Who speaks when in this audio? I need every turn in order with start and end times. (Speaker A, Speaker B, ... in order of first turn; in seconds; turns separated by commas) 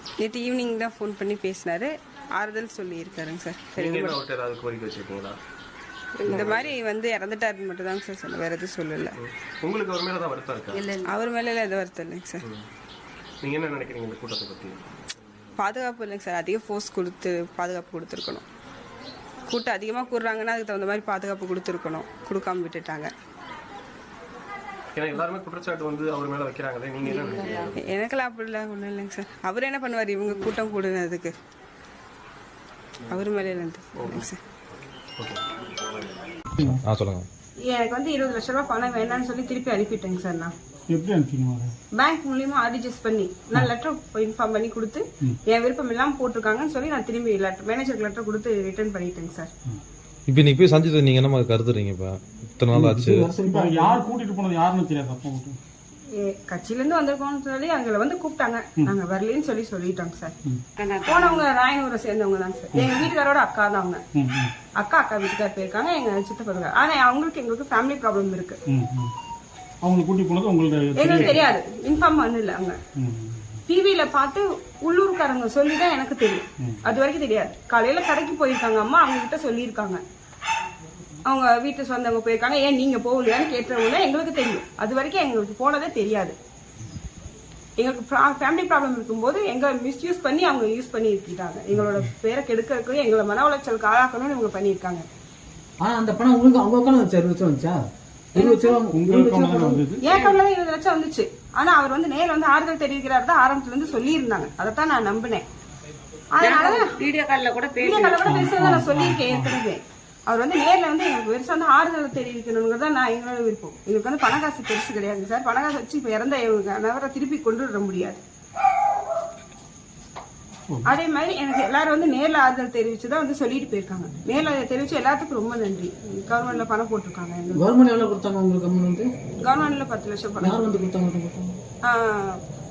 Speaker A: 0.2-4.2, Speaker B: 3.8-5.3, Speaker C: 6.2-6.5, Speaker A: 6.2-9.2, Speaker B: 6.2-6.8, Speaker B: 9.2-10.8, Speaker C: 10.7-11.2, Speaker A: 11.0-12.4, Speaker B: 13.4-15.6, Speaker A: 15.6-18.4, Speaker A: 19.5-23.1, Speaker B: 24.9-27.9, Speaker C: 27.2-27.6, Speaker A: 27.8-31.3, Speaker A: 33.1-34.4, Speaker B: 34.0-34.2, Speaker B: 35.2-35.5, Speaker D: 36.6-37.2, Speaker A: 37.6-40.5, Speaker E: 40.9-41.7, Speaker A: 41.9-49.5, Speaker D: 50.3-53.3, Speaker F: 52.7-54.0, Speaker E: 53.4-55.6, Speaker A: 56.1-60.3, Speaker C: 60.8-61.5, Speaker A: 61.0-64.0, Speaker E: 62.7-63.1, Speaker E: 64.2-64.5, Speaker A: 64.8-68.6, Speaker E: 68.7-69.1, Speaker E: 69.8-71.4, Speaker A: 71.0-72.8, Speaker E: 73.0-73.6, Speaker A: 73.7-80.0, Speaker A: 81.2-86.3, Speaker A: 87.8-95.0, Speaker F: 95.8-97.8, Speaker F: 98.3-99.8, Speaker A: 98.4-98.8, Speaker E: 98.9-100.0, Speaker A: 100.0-105.4, Speaker C: 100.0-100.4, Speaker A: 106.3-106.9, Speaker C: 106.4-108.4, Speaker A: 107.8-118.2, Speaker E: 108.2-109.5, Speaker A: 120.8-127.6, Speaker F: 127.5-129.1, Speaker A: 129.4-130.6, Speaker F: 130.4-131.6, Speaker A: 131.8-132.4